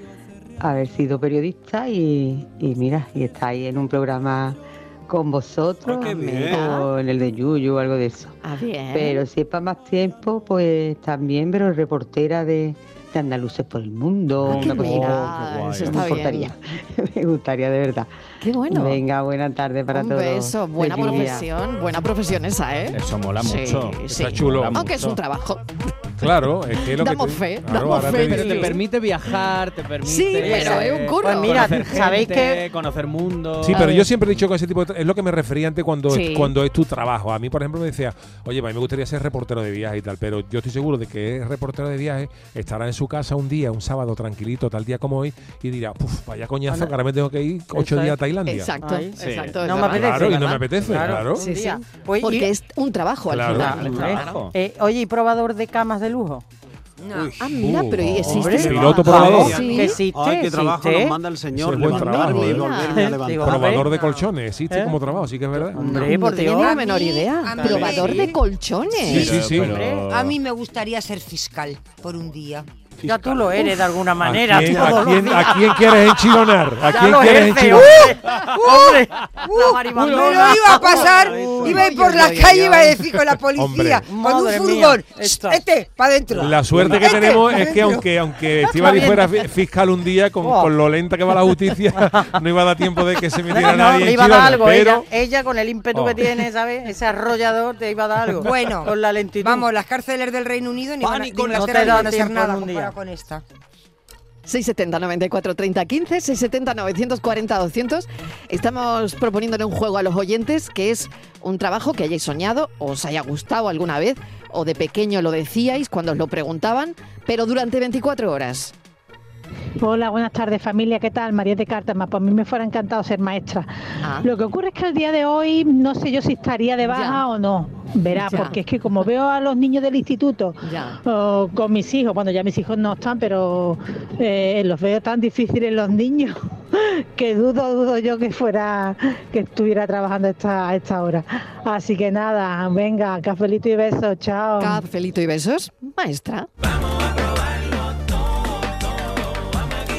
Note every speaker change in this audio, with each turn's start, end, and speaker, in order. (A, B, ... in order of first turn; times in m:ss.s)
0:00.6-0:08.4 A
0:05.8-0:06.8 B
0:06.5-0:06.9 C
0:08.4-0:09.2 C
0:08.9-0:18.1 A
0:14.4-0:16.2 D
0:14.5-0:16.5 C
0:18.4-0:19.0 C
0:18.7-0:21.5 A
0:19.9-0:25.6 C
0:22.9-0:25.2 D
0:24.2-0:24.8 E
0:26.2-0:28.7 E
0:27.0-0:28.8 C
0:27.8-0:34.0 D
0:30.0-0:31.8 C
0:30.4-0:32.6 F
0:33.6-0:48.7 E
0:33.7-0:34.0 C
0:36.1-0:36.5 C
0:46.7-0:47.0 F
0:47.7-0:48.2 F
0:48.5-0:50.5 C
0:48.8-0:52.5 F
0:49.2-0:49.8 D
0:49.8-0:51.4 E
0:51.4-0:54.5 C
0:53.3-0:53.9 E
0:53.5-0:54.5 D
0:53.5-0:56.4 F
0:57.0-0:57.4 G
0:57.1-1:03.9 B
0:57.4-1:00.0 C
0:57.5-0:59.7 E
0:58.3-1:01.2 F
1:01.6-1:02.7 E
1:02.0-1:02.3 F
1:02.3-1:03.1 C
1:02.9-1:05.0 F
1:03.4-1:06.1 E
1:05.5-1:06.8 F
1:05.8-1:08.4 G
1:05.9-1:09.3 C
1:07.5-1:08.4 F
1:09.0-1:10.4 D
1:09.1-1:09.6 G
1:09.1-1:09.8 E
1:09.6-1:10.1 F
1:10.1-1:12.7 G
1:13.0-1:13.6 B
1:13.0-1:16.0 F
1:14.2-1:18.1 E
1:16.8-1:21.8 F
1:18.5-1:27.9 G
1:20.8-1:21.9 B
1:21.7-1:22.7 C
1:22.6-1:22.9 F
1:23.6-1:24.1 E
1:24.0-1:25.7 F
1:26.4-1:35.1 E
1:26.9-1:27.2 F
1:28.6-1:29.3 F
1:30.4-1:30.7 F
1:33.5-1:39.7 F
1:35.9-1:36.4 E
1:38.3-1:43.4 G
1:41.0-1:41.7 B
1:41.1-1:43.0 F
1:44.5-1:58.7 C
1:59.8-2:24.8 H
2:04.0-2:04.3 C
2:06.9-2:07.2 C
2:08.3-2:08.6 C
2:10.6-2:11.0 C
2:24.6-2:26.5 C